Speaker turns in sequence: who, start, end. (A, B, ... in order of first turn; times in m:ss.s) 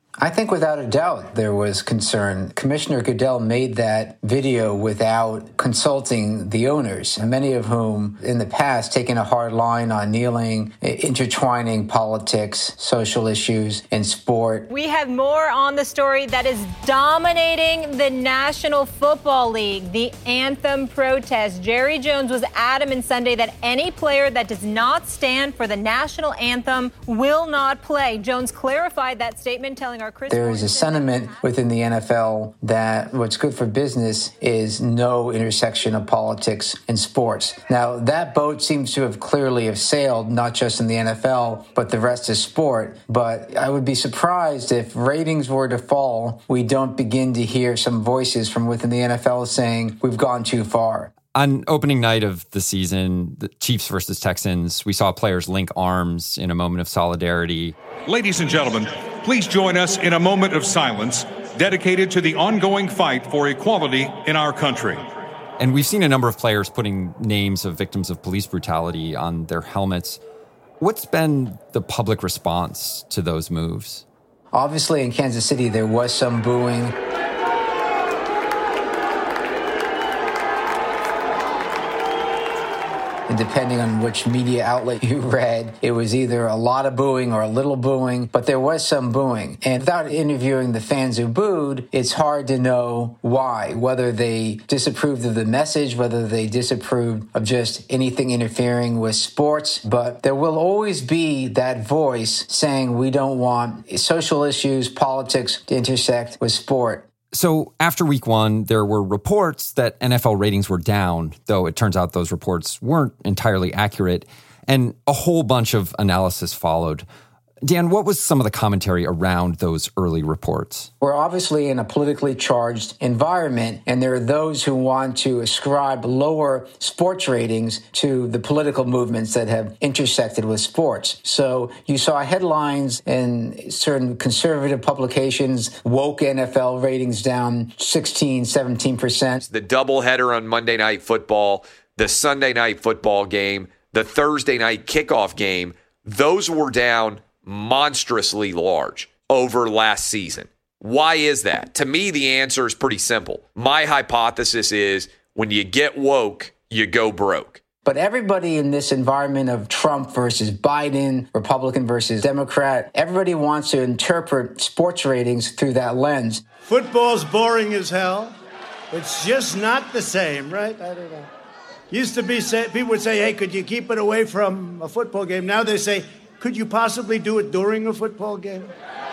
0:00.2-0:14.7 A
0:14.7-0:31.4 B
0:30.3-0:51.1 A
0:51.3-0:57.8 C
0:58.1-1:05.0 D
1:05.6-1:10.2 C
1:10.8-1:14.0 C
1:14.5-1:17.0 A
1:23.3-1:47.1 A
1:47.3-1:57.0 C
1:57.6-2:00.9 C
2:01.0-2:19.4 A
2:19.4-2:37.6 E
2:37.8-2:46.4 A
2:46.7-2:48.3 F
2:48.9-2:51.3 F
2:51.9-2:58.7 F